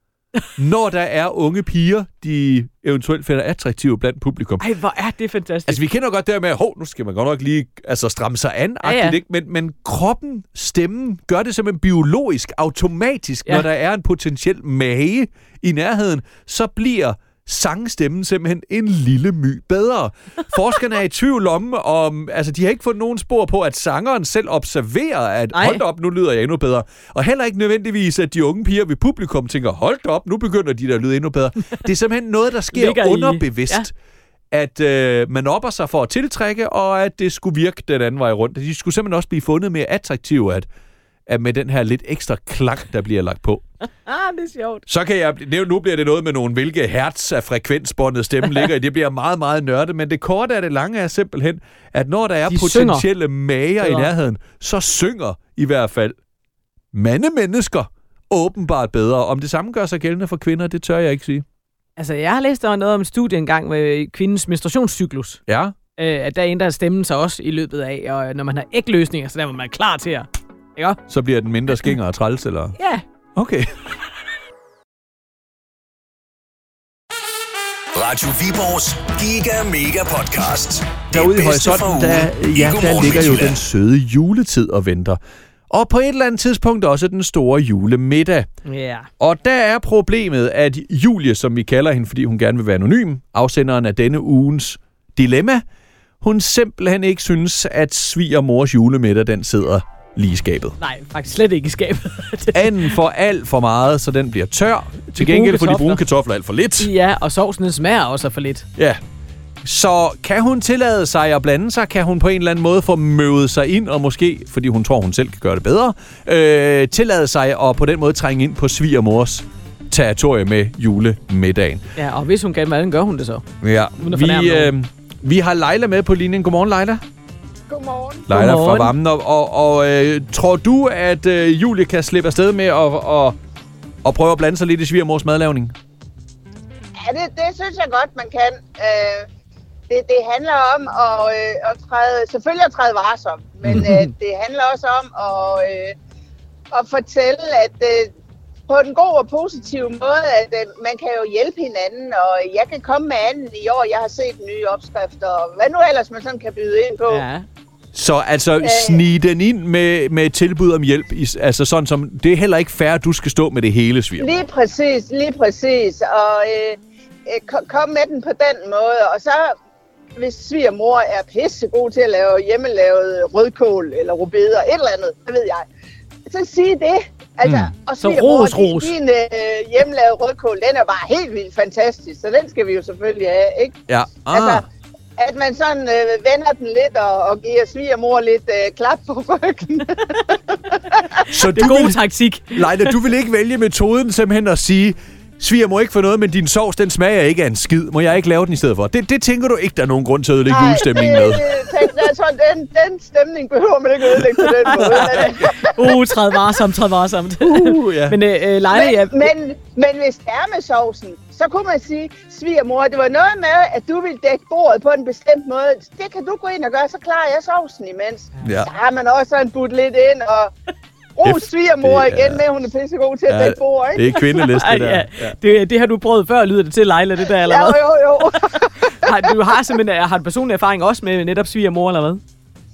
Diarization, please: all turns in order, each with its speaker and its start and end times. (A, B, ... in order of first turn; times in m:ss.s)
0:00.6-0:04.7 A
0:04.6-0:05.8 B
0:05.7-0:33.9 A
0:08.8-0:09.2 B
0:25.5-0:25.8 B
0:32.7-0:33.9 B
0:34.5-0:40.7 A
0:41.3-0:43.6 A
0:44.1-0:44.8 B
0:44.9-0:56.2 A
0:52.5-0:53.1 B
0:53.8-0:54.1 B
0:56.9-1:01.4 A
1:02.0-1:05.4 B
1:05.5-1:05.8 A
1:06.0-1:11.0 B
1:11.1-1:12.8 A
1:12.8-1:13.0 B
1:13.4-1:13.8 A
1:17.9-1:23.6 C
1:21.1-1:28.5 A
1:28.6-1:29.1 B
1:29.2-1:35.6 A
1:36.2-1:40.8 A
1:40.8-1:43.0 B
1:42.5-1:46.9 A
1:45.2-1:46.0 B
1:46.8-1:48.7 B
1:49.6-2:01.8 A
2:02.0-2:03.4 B
2:03.6-2:07.0 A
2:04.0-2:04.7 B
2:07.7-2:08.3 D
2:08.3-2:13.4 A
2:08.3-2:08.9 B
2:14.0-2:15.8 A
2:17.0-2:19.3 D
2:19.9-2:26.0 D
2:23.8-2:24.0 B
2:26.7-2:28.1 D
2:28.7-2:37.2 D
2:37.1-2:37.5 B
2:37.9-2:44.3 A
2:38.6-2:39.0 D
2:44.2-2:49.6 D
2:50.2-2:55.6 D
2:56.3-3:03.8 D
2:57.4-2:57.7 A
2:58.0-2:58.9 B
3:03.9-3:04.6 A
3:04.3-3:04.7 D
3:05.2-3:10.4 D
3:11.2-3:13.0 B
3:11.3-3:12.0 A
3:12.5-3:21.5 A
3:20.5-3:26.0 D
3:24.7-3:29.3 B
3:24.9-3:25.6 A
3:27.4-3:28.2 A
3:28.7-3:40.5 D
3:38.4-3:38.7 A
3:41.2-3:44.2 D
3:41.2-3:42.4 A
3:43.3-3:45.4 A
3:44.3-3:52.2 B
3:47.4-3:49.5 D